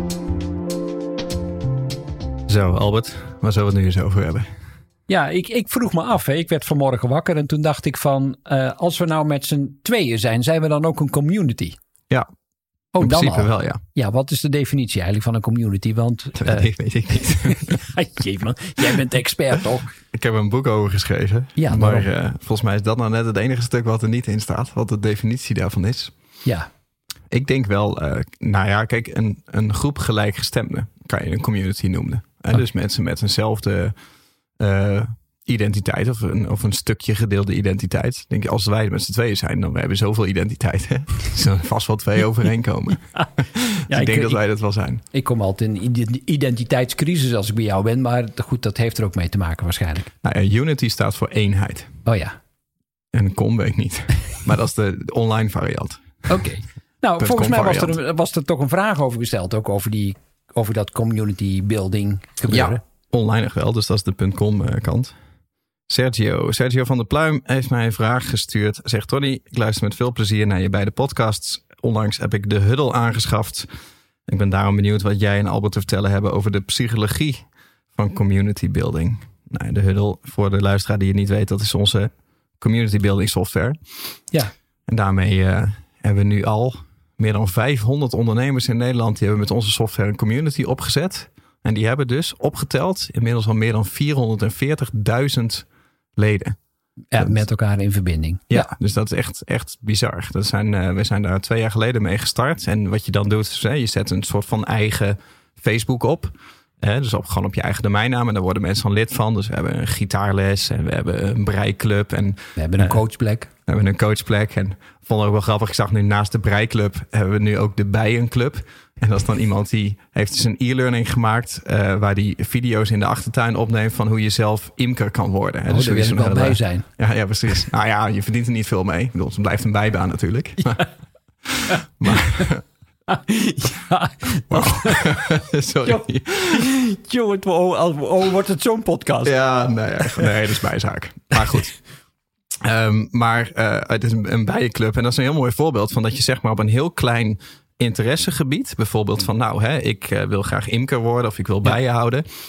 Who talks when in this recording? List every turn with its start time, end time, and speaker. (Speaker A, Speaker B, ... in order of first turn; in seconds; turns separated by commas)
Speaker A: 2.5-4.5, Speaker B: 5.1-11.8, Speaker B: 12.9-16.7, Speaker A: 13.0-13.8, Speaker A: 16.4-17.8, Speaker B: 17.4-19.9, Speaker A: 20.1-26.1, Speaker B: 21.6-22.1, Speaker A: 27.3-34.0, Speaker A: 34.6-45.0, Speaker B: 43.9-44.4, Speaker B: 45.1-50.1, Speaker A: 50.2-51.9, Speaker B: 52.1-52.4, Speaker A: 53.1-56.2, Speaker B: 56.3-62.8, Speaker A: 57.2-57.9, Speaker A: 62.5-65.1, Speaker A: 65.9-73.7, Speaker A: 74.3-83.8, Speaker A: 84.9-95.7, Speaker A: 96.2-96.6, Speaker B: 97.1-98.7, Speaker A: 98.5-113.0, Speaker B: 112.6-113.5, Speaker A: 113.7-130.8, Speaker B: 125.7-126.9, Speaker A: 131.4-132.6, Speaker B: 131.7-132.5, Speaker B: 133.1-139.3, Speaker A: 134.5-136.6, Speaker A: 139.2-141.7, Speaker B: 140.0-140.3, Speaker A: 142.6-152.2